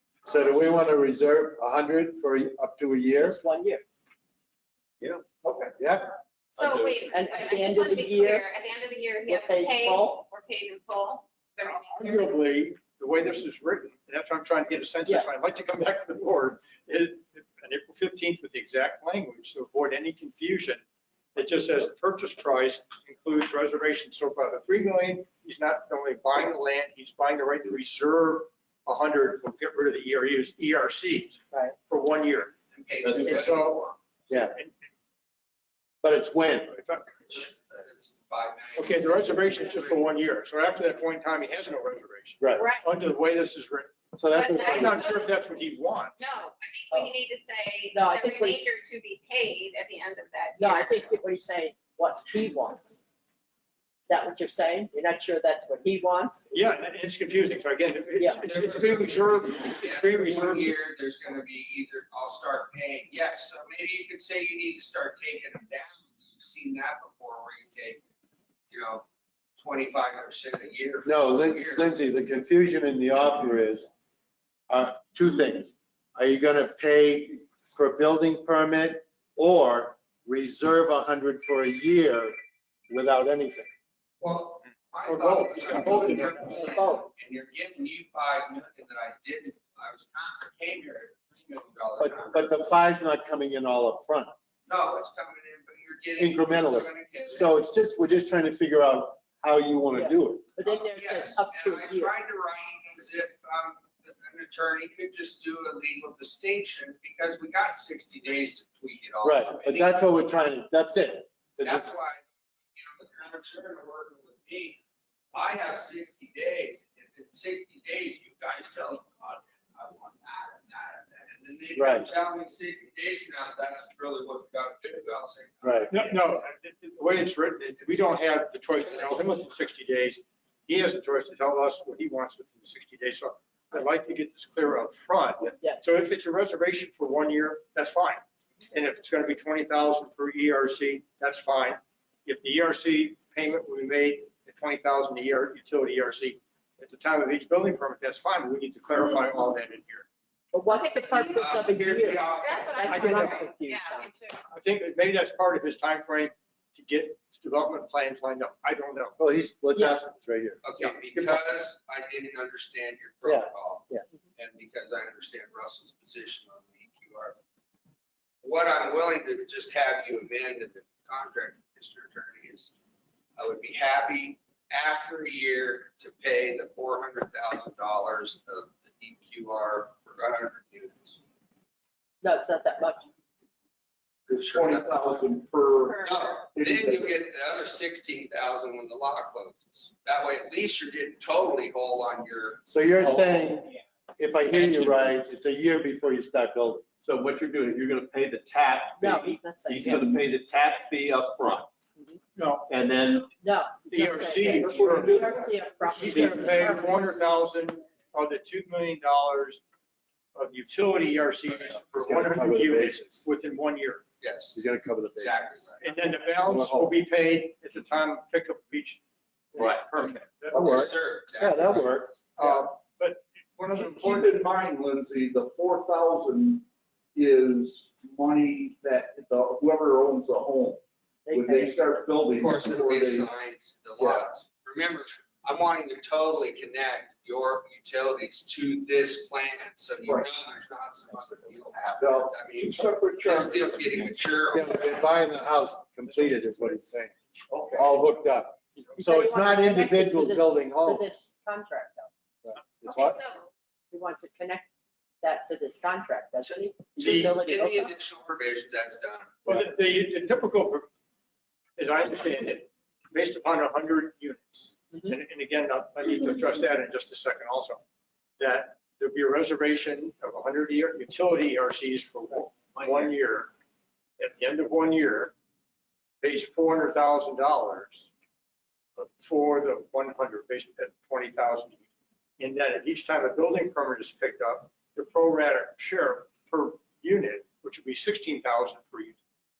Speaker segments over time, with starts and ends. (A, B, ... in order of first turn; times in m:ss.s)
0:00.2-0:03.4 A
0:03.2-0:03.8 B
0:05.4-0:05.7 C
0:05.8-0:06.1 A
0:06.6-0:12.3 D
0:06.6-0:06.9 E
0:07.1-0:08.4 B
0:09.2-0:10.2 B
0:11.6-0:20.8 F
0:21.3-0:32.5 F
0:32.7-0:34.0 G
0:33.2-0:33.8 F
0:34.3-0:34.5 A
0:36.0-0:36.8 A
0:36.7-0:37.4 F
0:37.3-0:40.1 G
0:38.8-0:46.2 F
0:42.4-0:42.7 A
0:42.5-0:42.9 D
0:44.2-0:45.2 A
0:44.3-0:45.4 D
0:46.2-0:51.3 D
0:47.9-0:48.6 B
0:50.6-0:53.1 B
0:54.0-0:56.5 B
0:56.5-1:00.7 F
0:58.2-0:58.4 B
0:58.4-1:08.0 G
1:08.7-1:11.9 G
1:11.0-1:13.9 A
1:14.7-1:22.4 A
1:22.9-1:23.7 A
1:24.2-1:32.6 G
1:25.0-1:26.6 F
1:26.4-1:27.1 B
1:32.0-1:34.3 A
1:34.6-1:37.5 G
1:36.2-1:40.5 A
1:39.9-1:42.2 B
1:40.6-1:50.4 G
1:49.2-1:51.9 A
1:51.6-1:52.2 G
1:52.7-1:54.8 G
1:55.3-2:06.4 G
2:01.7-2:02.1 A
2:05.6-2:05.9 A
2:05.9-2:30.1 F
2:07.8-2:08.2 G
2:15.6-2:15.8 B
2:30.5-2:34.1 B
2:30.7-2:34.4 D
2:31.2-2:33.0 G
2:34.5-2:39.2 F
2:39.2-2:40.6 A
2:40.6-2:47.4 G
2:40.8-2:41.4 F
2:43.2-2:44.0 A
2:48.4-2:52.7 G
2:53.4-3:01.2 G
3:02.2-3:03.1 B
3:04.3-3:07.1 C
3:04.3-3:05.0 G
3:05.8-3:06.4 D
3:06.0-3:12.6 G
3:12.6-3:16.8 A
3:17.0-3:21.7 E
3:19.0-3:20.2 B
3:22.4-3:22.7 F
3:22.7-3:23.3 E
3:23.4-3:27.0 B
3:23.9-3:25.4 F
3:24.5-3:26.2 C
3:26.0-3:29.6 F
3:30.3-3:34.0 F
3:31.9-3:33.2 A
3:34.2-3:34.6 G
3:34.5-3:35.5 A
3:35.2-3:35.9 G
3:35.8-3:39.0 F
3:36.4-3:37.0 A
3:39.5-3:40.7 F
3:40.5-3:42.1 G
3:40.5-3:42.6 A
3:42.4-3:44.3 F
3:43.7-3:53.3 C
3:51.3-3:51.8 B
3:52.4-4:05.2 G
3:54.0-3:54.3 C
4:02.0-4:04.4 C
4:04.5-4:07.1 A
4:07.5-4:08.0 C
4:07.7-4:11.0 A
4:09.0-4:12.1 B
4:12.4-4:13.2 A
4:12.8-4:13.5 D
4:13.9-4:14.7 B
4:15.2-4:17.9 B
4:17.0-4:19.4 G
4:19.4-4:20.9 F
4:21.8-4:27.8 F
4:28.4-4:33.5 F
4:34.2-4:35.3 F
4:36.2-4:38.1 F
4:39.0-4:41.8 F
4:42.4-4:49.2 F